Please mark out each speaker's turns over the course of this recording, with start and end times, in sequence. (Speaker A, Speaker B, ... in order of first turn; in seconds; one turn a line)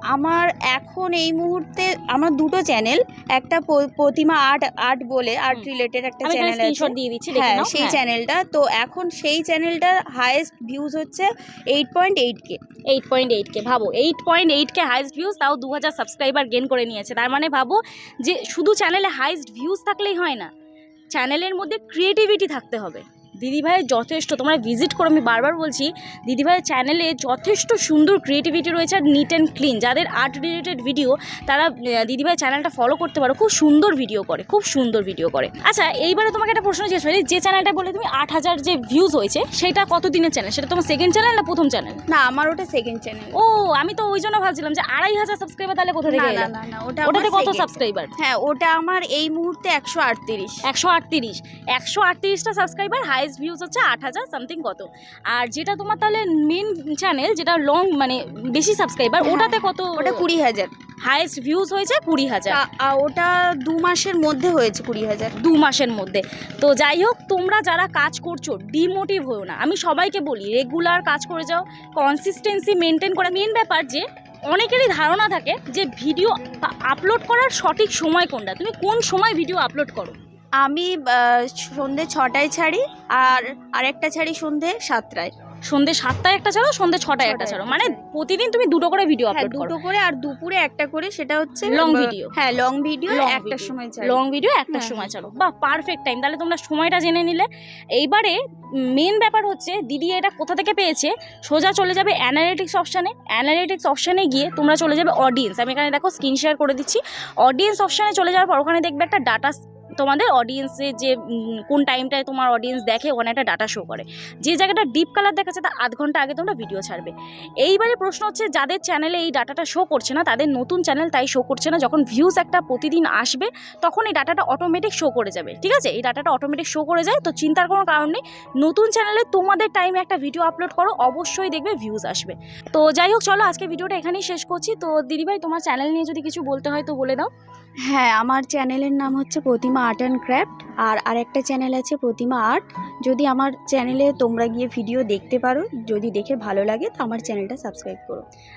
Speaker A: 0.1-12.6
Speaker B: 6.2-8.0
Speaker B: 12.9-20.5
Speaker B: 21.1-42.0
Speaker A: 42.1-43.4
Speaker B: 43.3-46.5
Speaker A: 46.0-50.6
Speaker B: 47.0-48.1
Speaker B: 50.6-60.2
Speaker A: 59.2-60.7
Speaker B: 61.0-62.6
Speaker A: 62.5-65.3
Speaker B: 65.4-80.2
Speaker A: 80.6-85.3
Speaker B: 85.7-89.7
Speaker A: 87.2-88.0
Speaker A: 89.3-94.2
Speaker B: 91.7-92.3
Speaker B: 93.1-117.1
Speaker A: 94.7-95.1
Speaker B: 117.6-137.3
Speaker A: 137.9-148.2